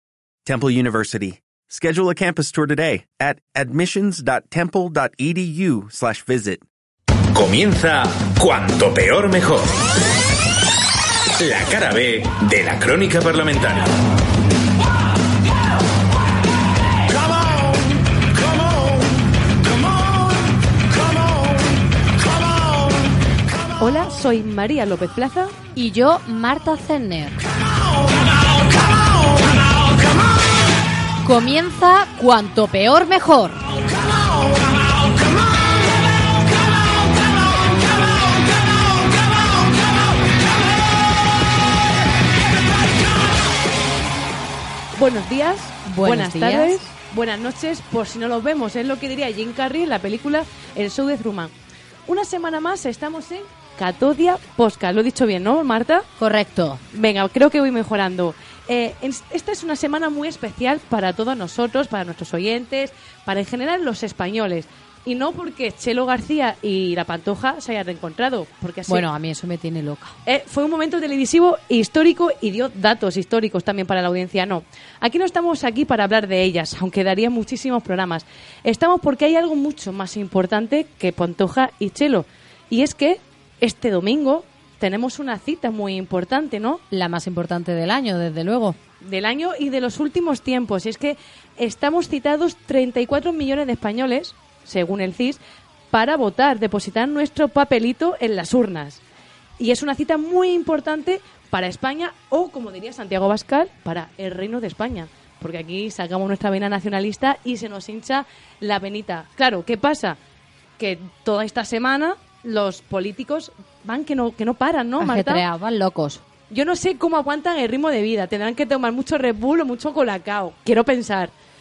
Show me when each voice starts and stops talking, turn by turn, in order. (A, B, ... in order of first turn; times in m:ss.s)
0:00.4-0:06.6 A
0:07.3-0:09.8 B
0:11.4-0:13.9 B
0:23.8-0:25.6 C
0:25.8-0:27.4 D
0:31.2-0:33.6 D
0:45.0-0:51.5 C
0:45.8-0:46.8 D
0:52.1-0:56.1 C
0:56.2-0:56.8 D
0:56.9-1:09.1 C
1:08.9-1:10.2 D
1:10.3-1:26.8 C
1:26.9-1:28.8 D
1:29.0-1:35.4 C
1:35.9-1:39.0 C
1:39.6-1:50.2 C
1:50.8-1:55.4 C
1:55.0-1:56.2 D
1:56.5-2:01.3 C